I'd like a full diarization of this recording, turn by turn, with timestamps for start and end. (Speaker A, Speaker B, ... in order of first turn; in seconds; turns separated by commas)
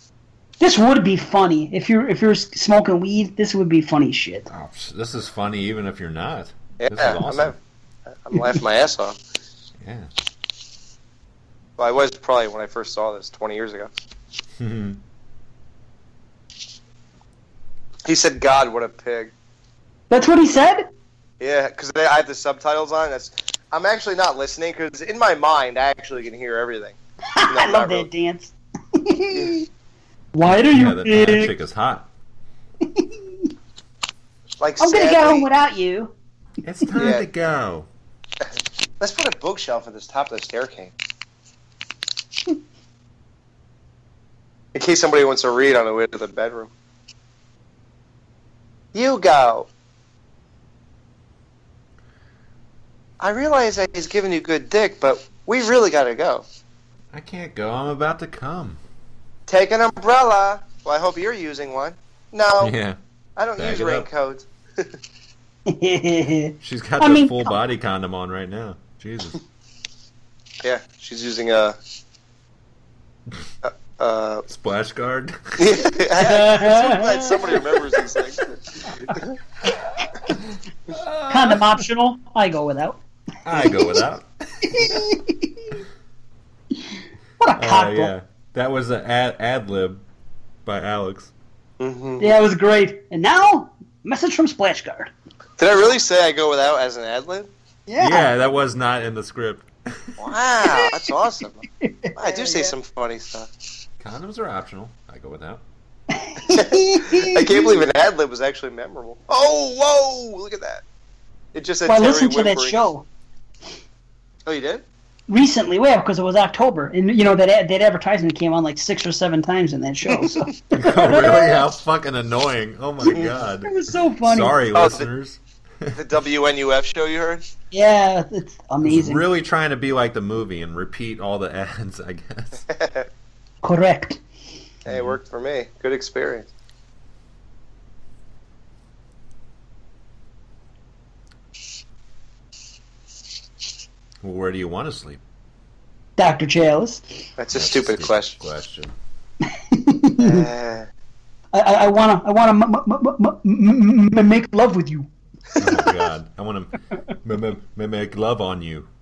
Speaker A: 0.6-4.5, Speaker B: 4.5-7.5, Speaker C: 6.8-7.5, Speaker C: 8.1-9.2, Speaker B: 9.8-10.1, Speaker C: 11.8-13.9, Speaker B: 14.6-15.0, Speaker C: 18.1-19.3, Speaker A: 20.1-20.9, Speaker C: 21.4-26.9, Speaker A: 27.3-29.6, Speaker C: 27.5-28.1, Speaker A: 30.3-31.5, Speaker B: 30.4-32.1, Speaker A: 32.8-33.5, Speaker C: 34.6-35.5, Speaker A: 34.8-36.1, Speaker B: 36.6-37.9, Speaker C: 37.0-37.2, Speaker C: 39.0-40.9, Speaker C: 44.7-46.7, Speaker C: 48.9-49.7, Speaker C: 53.2-56.4, Speaker B: 57.1-58.8, Speaker C: 59.5-62.7, Speaker B: 62.6-63.0, Speaker C: 63.4-64.9, Speaker B: 63.6-64.1, Speaker A: 65.7-67.5, Speaker B: 66.6-69.4, Speaker C: 70.6-71.8, Speaker C: 73.6-74.4, Speaker B: 74.5-75.8, Speaker C: 75.6-79.3, Speaker A: 76.2-77.8, Speaker B: 80.4-81.7, Speaker A: 81.3-83.0, Speaker B: 83.4-85.0, Speaker A: 84.6-85.8, Speaker A: 87.4-88.1, Speaker B: 87.5-90.0, Speaker B: 90.6-91.3, Speaker C: 91.8-92.3, Speaker A: 92.2-95.1, Speaker C: 95.6-97.5, Speaker A: 97.9-98.3, Speaker B: 98.0-100.1, Speaker C: 100.2-101.6, Speaker A: 100.6-101.1, Speaker A: 101.8-102.7, Speaker C: 102.2-103.5, Speaker B: 104.0-105.6, Speaker A: 106.1-107.8, Speaker C: 106.5-110.8, Speaker C: 111.5-112.8, Speaker A: 111.8-113.0, Speaker C: 114.5-114.8, Speaker A: 115.3-121.6, Speaker C: 120.1-120.5, Speaker B: 120.7-126.0, Speaker A: 123.0-124.5, Speaker C: 124.7-125.1, Speaker C: 125.9-127.4, Speaker A: 127.7-129.2, Speaker B: 128.8-132.6, Speaker C: 132.7-133.1, Speaker A: 133.6-134.2, Speaker C: 134.8-136.5, Speaker B: 134.9-135.2, Speaker B: 144.2-145.2, Speaker A: 146.2-147.0, Speaker C: 147.4-148.3, Speaker B: 147.5-148.9, Speaker A: 149.7-150.5, Speaker C: 150.2-150.9, Speaker A: 151.5-155.1, Speaker B: 155.6-158.9